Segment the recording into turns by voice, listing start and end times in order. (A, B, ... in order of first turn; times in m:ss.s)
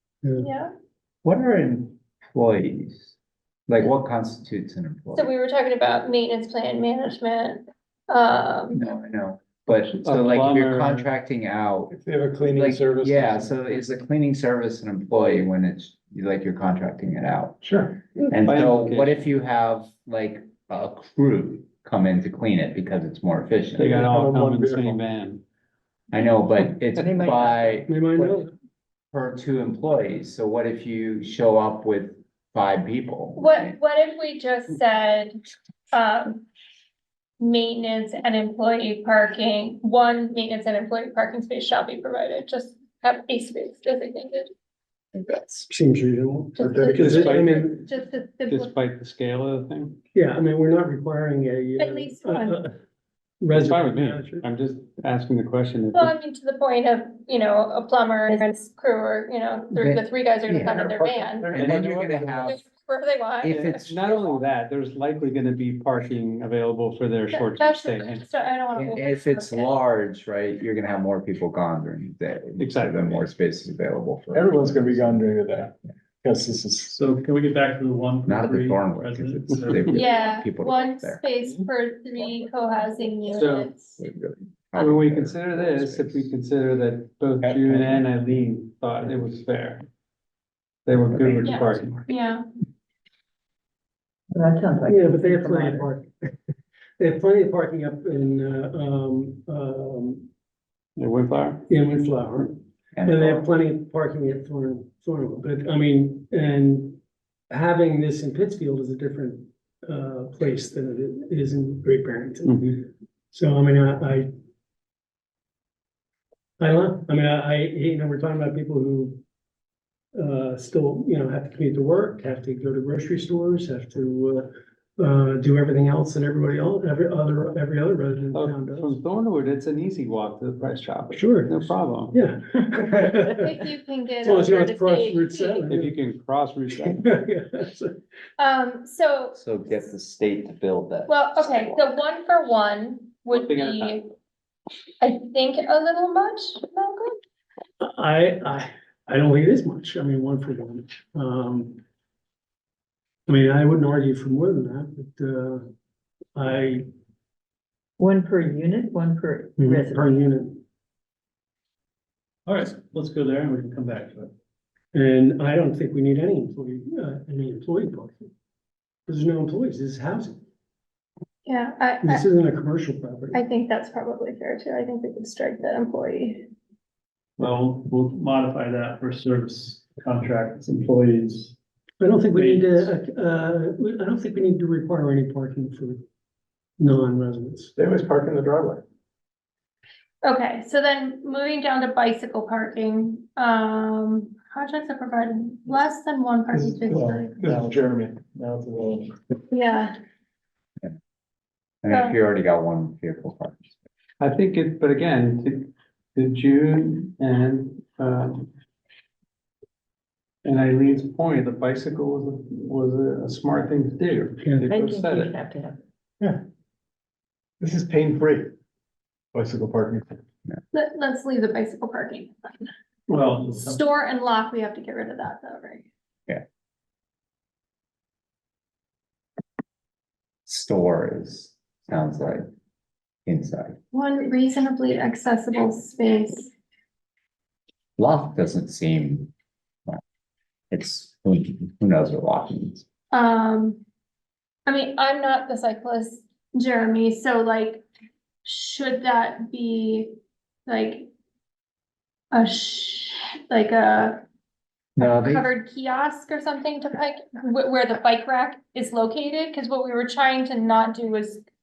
0:00.2-0:00.5 A
0:00.4-0:00.7 B
0:01.2-0:03.1 C
0:03.7-0:05.3 C
0:05.2-0:08.9 B
0:08.7-0:17.6 C
0:09.9-0:11.1 D
0:11.9-0:13.6 E
0:17.6-0:18.3 E
0:18.3-0:24.0 C
0:18.4-0:19.3 D
0:23.8-0:25.4 D
0:23.8-0:25.0 E
0:26.1-0:28.5 C
0:27.0-0:27.6 F
0:27.9-0:28.5 A
0:29.1-0:33.8 C
0:33.4-0:35.4 B
0:35.9-0:36.4 B
0:37.4-0:44.5 B
0:45.2-0:45.7 C
0:45.7-0:47.8 A
0:46.6-0:47.4 E
0:46.9-0:47.7 D
0:47.3-0:48.7 B
0:48.5-0:50.0 D
0:50.1-0:52.7 A
0:51.8-0:52.6 B
0:53.4-0:54.5 A
0:53.5-0:56.1 D
0:55.9-1:01.5 B
0:59.7-1:02.6 C
1:01.0-1:02.5 E
1:01.6-1:01.8 D
1:02.4-1:03.8 B
1:03.4-1:04.4 C
1:03.5-1:08.2 D
1:07.3-1:09.8 B
1:08.7-1:15.3 C
1:12.6-1:13.2 D
1:14.3-1:17.0 E
1:16.9-1:20.0 G
1:18.2-1:21.2 C
1:19.9-1:24.0 B
1:23.3-1:23.7 D
1:24.0-1:26.3 C
1:24.8-1:29.9 D
1:27.7-1:28.0 C
1:30.9-1:32.1 D
1:31.1-1:31.6 C
1:31.4-1:32.4 B
1:34.3-1:35.9 F
1:34.8-1:36.3 A
1:37.0-1:40.3 A
1:41.0-1:41.7 D
1:41.7-1:47.0 A
1:42.9-1:43.5 C
1:47.5-1:54.3 A
1:52.4-1:52.8 D
1:56.6-1:59.2 A
2:00.2-2:09.0 A
2:08.3-2:12.2 D
2:11.1-2:13.6 A
2:13.3-2:15.7 B
2:14.2-2:16.0 A
2:15.7-2:17.0 D
2:16.8-2:18.0 A
2:18.4-2:19.4 B
2:19.4-2:21.9 C
2:21.1-2:24.1 B
2:23.3-2:24.0 D
2:25.0-2:27.2 B
2:27.8-2:31.8 A
2:33.3-2:35.6 A
2:36.4-2:36.8 A
2:38.0-2:40.1 F
2:39.6-2:40.6 A
2:42.5-2:44.3 G
2:44.9-2:48.3 A
2:49.1-2:50.4 A
2:51.4-2:52.2 B
2:52.0-2:53.4 A
2:53.3-2:56.5 B
2:57.4-3:01.6 G
3:02.0-3:06.0 A
3:02.3-3:02.9 G
3:06.8-3:07.7 A
3:07.8-3:08.8 E
3:10.2-3:17.5 B
3:16.5-3:19.2 E
3:19.5-3:20.0 B
3:21.8-3:23.8 C
3:21.9-3:22.2 B
3:24.2-3:28.5 D
3:30.4-3:35.4 D
3:34.7-3:35.8 F
3:37.6-3:38.5 E
3:39.3-3:40.2 E
3:40.7-3:42.7 B
3:43.1-3:43.8 G
3:43.6-3:45.9 B
3:50.5-3:52.5 C
3:53.3-3:53.8 C
3:53.9-3:56.5 B
3:58.0-3:59.3 C
4:00.7-4:02.8 C
4:03.1-4:03.8 B
4:04.7-4:07.8 B
4:08.4-4:11.1 B
4:12.3-4:14.2 B
4:15.0-4:15.5 C
4:15.0-4:21.4 B